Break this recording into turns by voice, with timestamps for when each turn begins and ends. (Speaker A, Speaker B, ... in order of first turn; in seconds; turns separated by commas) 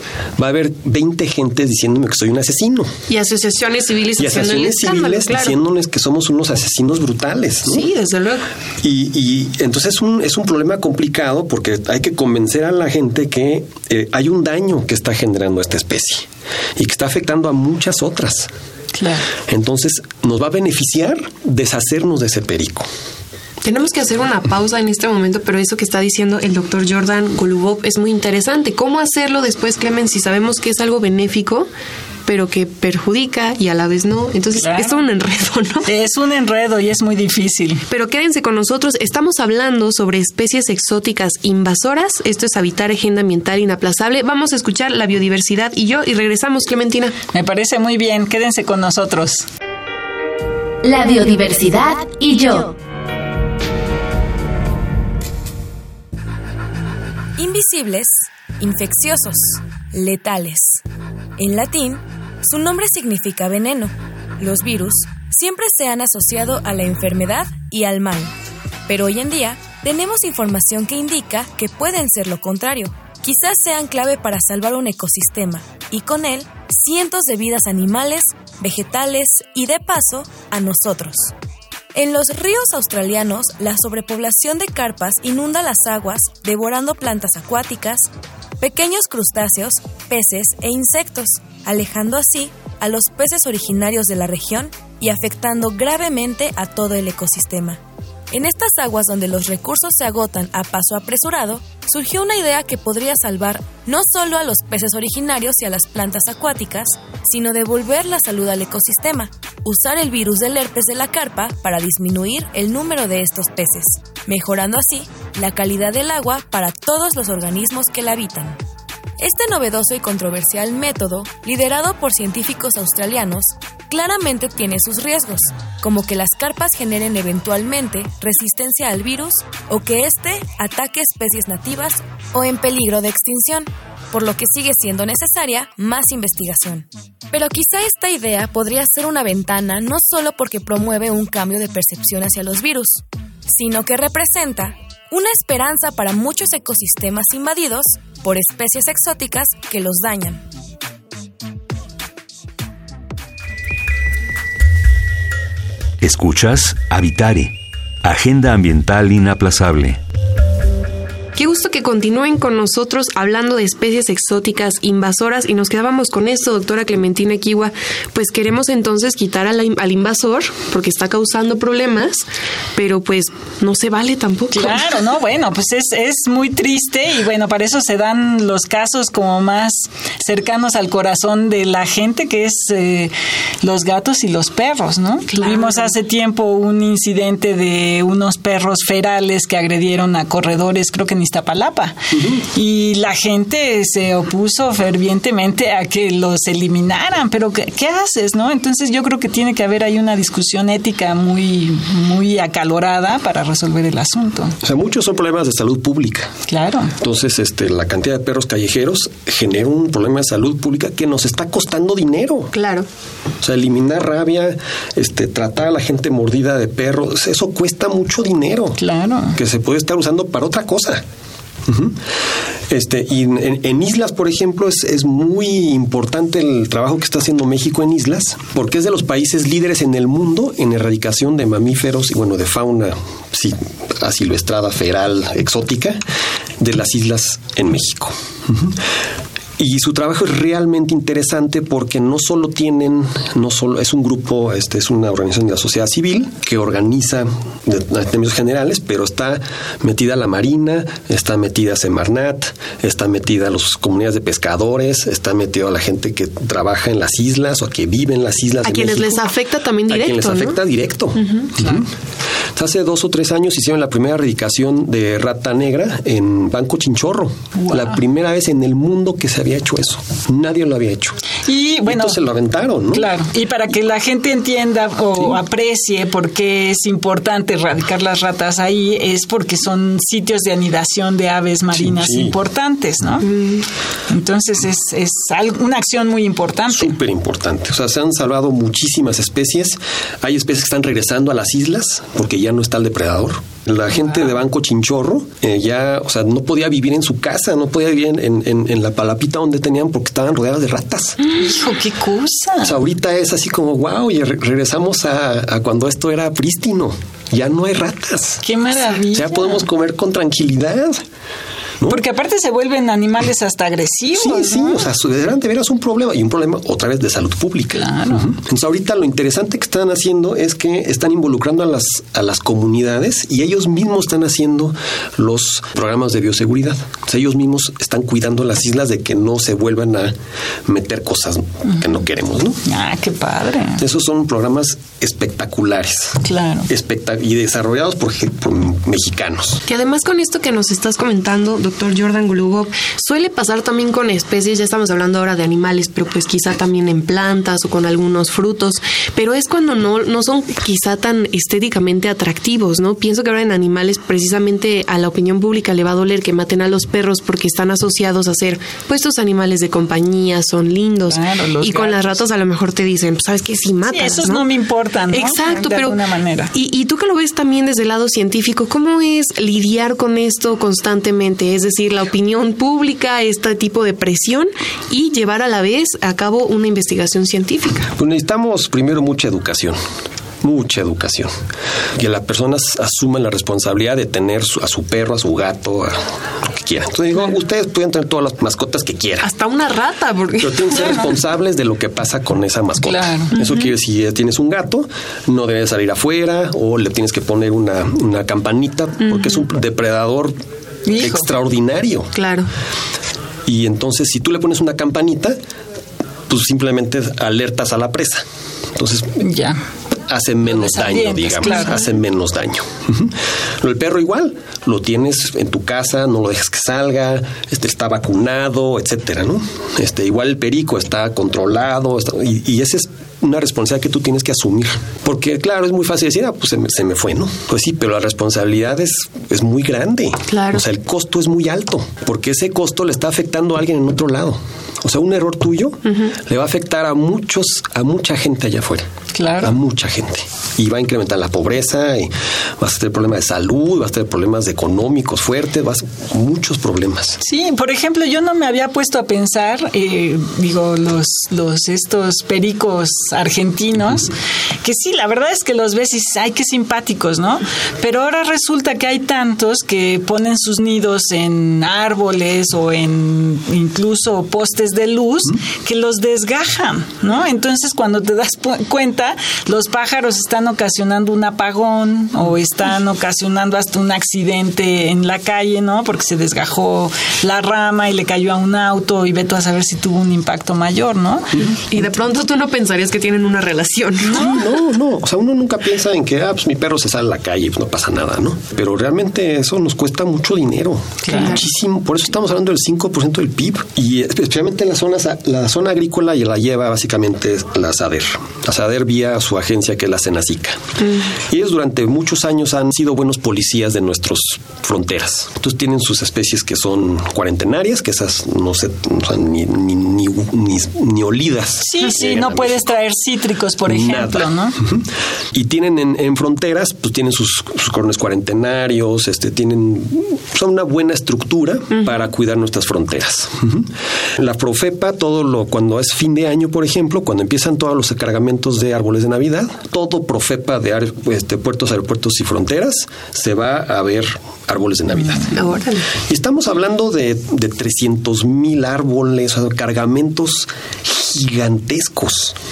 Speaker A: 0.4-2.9, Speaker B: 3.1-5.5, Speaker A: 4.2-7.9, Speaker B: 7.7-8.5, Speaker A: 8.8-18.5, Speaker C: 18.9-19.3, Speaker A: 19.4-22.9, Speaker B: 23.6-31.7, Speaker B: 32.3-35.9, Speaker C: 34.6-35.0, Speaker C: 35.9-37.8, Speaker B: 37.9-47.1, Speaker C: 47.3-49.5, Speaker D: 50.8-52.8, Speaker E: 57.4-60.8, Speaker E: 61.4-68.3, Speaker E: 68.9-81.3, Speaker E: 82.0-88.1, Speaker E: 88.6-118.6, Speaker E: 119.2-150.4, Speaker F: 156.0-160.0, Speaker B: 161.4-174.9, Speaker C: 174.5-191.9, Speaker B: 185.3-185.9, Speaker A: 192.1-192.5, Speaker C: 192.5-204.6, Speaker A: 204.6-206.3, Speaker C: 206.5-206.9, Speaker A: 207.0-212.5, Speaker B: 212.5-212.9, Speaker A: 213.4-218.8, Speaker C: 218.8-219.4, Speaker A: 219.3-221.0, Speaker A: 221.7-222.0, Speaker A: 222.7-236.0, Speaker A: 236.6-238.8, Speaker A: 239.6-259.3, Speaker B: 258.6-260.6, Speaker A: 259.9-261.9, Speaker B: 261.2-261.5, Speaker C: 261.6-261.8, Speaker A: 262.6-271.2, Speaker C: 267.6-267.8, Speaker C: 271.4-272.2, Speaker A: 271.9-273.1, Speaker C: 272.9-283.3, Speaker A: 281.7-282.4, Speaker B: 283.3-283.6, Speaker C: 284.1-287.0, Speaker A: 286.7-301.2, Speaker C: 301.4-302.8, Speaker A: 302.6-311.0, Speaker C: 308.4-309.6, Speaker C: 311.9-314.9, Speaker A: 314.1-330.1, Speaker C: 317.8-318.3, Speaker A: 330.7-332.6, Speaker C: 332.7-333.8, Speaker A: 333.8-339.6, Speaker C: 336.2-336.7, Speaker B: 339.7-364.5, Speaker C: 361.1-362.2, Speaker C: 363.9-366.5, Speaker B: 365.1-366.0, Speaker B: 366.5-377.9, Speaker A: 378.0-379.8, Speaker A: 380.4-381.3, Speaker A: 382.0-389.3, Speaker B: 389.2-391.1, Speaker A: 390.4-400.4, Speaker C: 392.8-393.3, Speaker B: 393.4-393.7, Speaker B: 399.0-399.4, Speaker C: 400.9-401.2, Speaker A: 401.0-402.1, Speaker B: 402.1-402.5, Speaker A: 403.5-405.4, Speaker A: 406.3-409.2, Speaker C: 409.2-409.6, Speaker A: 410.1-447.2, Speaker C: 410.5-411.8, Speaker B: 411.5-411.7, Speaker B: 430.3-430.6, Speaker C: 439.1-439.6, Speaker C: 447.2-481.6, Speaker B: 481.7-484.4, Speaker C: 484.1-484.4, Speaker A: 484.2-500.6, Speaker C: 491.0-491.4, Speaker B: 491.1-491.4, Speaker B: 500.8-501.1, Speaker A: 501.3-512.7, Speaker C: 511.6-514.6, Speaker A: 513.7-535.4, Speaker B: 535.3-535.9, Speaker A: 536.0-542.4